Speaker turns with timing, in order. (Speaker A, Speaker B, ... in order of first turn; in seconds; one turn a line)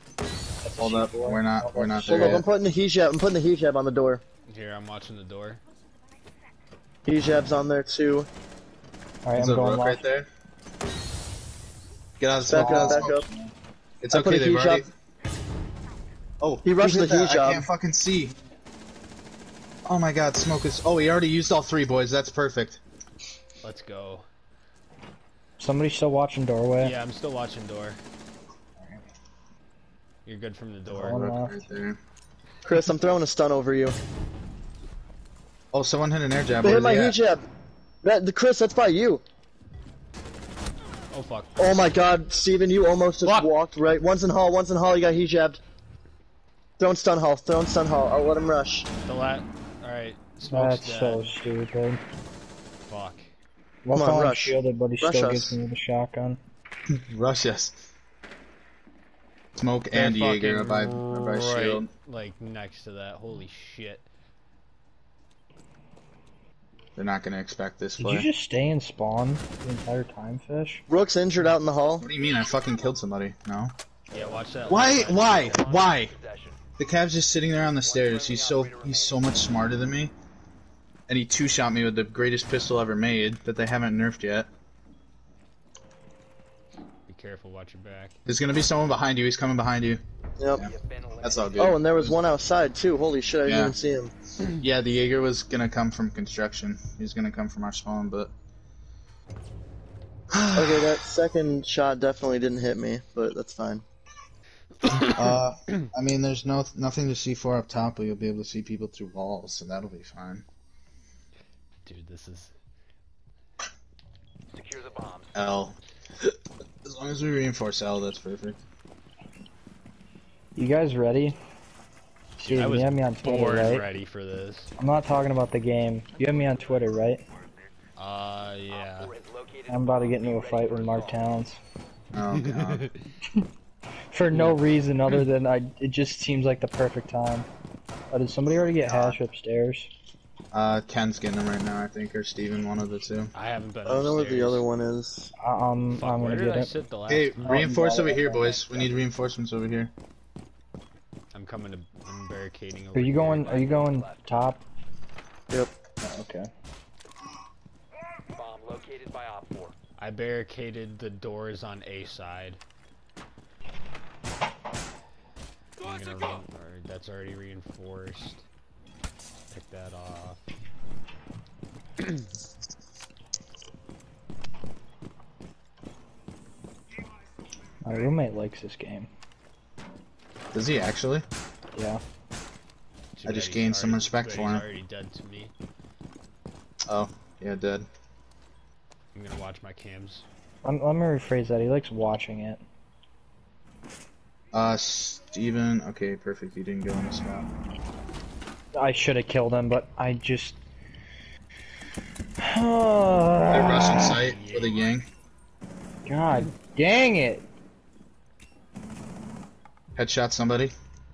Speaker A: 0.6-2.4
Speaker B: 0.8-2.5
Speaker C: 2.0-4.2
Speaker D: 4.5-5.6
Speaker C: 7.0-8.3
Speaker A: 9.2-10.0
Speaker B: 9.3-10.3
Speaker B: 12.2-14.9
Speaker C: 12.5-13.2
Speaker A: 12.5-13.1
Speaker C: 14.1-14.9
Speaker B: 16.4-18.4
Speaker C: 16.6-17.6
Speaker B: 19.9-22.8
Speaker D: 23.6-24.2
Speaker A: 25.6-26.9
Speaker D: 26.8-28.0
Speaker D: 30.2-31.2
Speaker B: 30.9-32.0
Speaker A: 30.9-31.6
Speaker C: 32.6-34.0
Speaker B: 35.7-37.2
Speaker C: 36.6-37.4
Speaker C: 38.0-39.2
Speaker D: 41.1-41.7
Speaker C: 41.6-45.6
Speaker D: 43.2-43.5
Speaker C: 46.8-48.9
Speaker D: 49.0-51.3
Speaker A: 50.5-52.0
Speaker D: 52.9-53.2
Speaker A: 53.8-56.4
Speaker C: 53.9-55.6
Speaker B: 56.9-57.8
Speaker B: 59.6-61.9
Speaker D: 59.9-64.0
Speaker B: 67.0-68.3
Speaker A: 68.0-70.8
Speaker C: 70.9-72.1
Speaker B: 72.0-73.7
Speaker D: 74.1-75.7
Speaker E: 74.6-76.6
Speaker B: 74.7-76.1
Speaker B: 76.8-80.1
Speaker E: 77.8-79.6
Speaker B: 81.1-84.5
Speaker D: 87.1-88.2
Speaker B: 88.2-90.0
Speaker C: 90.4-90.7
Speaker E: 90.5-91.8
Speaker B: 91.2-92.1
Speaker C: 91.5-94.1
Speaker B: 93.5-93.7
Speaker B: 94.6-98.3
Speaker B: 100.3-101.0
Speaker C: 100.5-103.8
Speaker D: 104.8-105.3
Speaker B: 104.9-110.4
Speaker D: 111.8-112.5
Speaker E: 114.5-115.3
Speaker B: 115.3-116.3
Speaker B: 116.8-118.6
Speaker A: 120.5-121.4
Speaker A: 122.4-123.8
Speaker D: 122.5-124.7
Speaker A: 124.8-127.2
Speaker D: 128.0-129.1
Speaker E: 128.7-131.4
Speaker A: 129.7-131.6
Speaker B: 132.1-132.9
Speaker D: 132.3-132.9
Speaker A: 134.1-137.5
Speaker A: 138.1-139.9
Speaker B: 138.7-139.2
Speaker B: 140.5-143.3
Speaker D: 143.3-144.6
Speaker C: 143.8-145.3
Speaker A: 145.4-146.7
Speaker D: 145.9-147.6
Speaker B: 147.1-149.9
Speaker A: 147.4-148.2
Speaker C: 147.4-148.9
Speaker D: 151.3-153.7
Speaker A: 152.9-154.6
Speaker E: 153.4-154.3
Speaker A: 156.0-156.5
Speaker E: 158.3-159.8
Speaker D: 160.0-162.6
Speaker D: 165.8-168.4
Speaker D: 169.5-170.4
Speaker D: 172.0-172.2
Speaker A: 177.8-179.1
Speaker B: 180.5-181.2
Speaker A: 181.7-182.0
Speaker D: 183.2-185.5
Speaker B: 183.2-184.7
Speaker B: 186.9-187.9
Speaker D: 189.1-190.2
Speaker A: 190.6-192.6
Speaker B: 194.5-197.5
Speaker A: 198.7-200.6
Speaker A: 202.4-204.2
Speaker B: 203.5-205.1
Speaker D: 204.1-204.7
Speaker A: 206.1-207.4
Speaker B: 209.9-210.7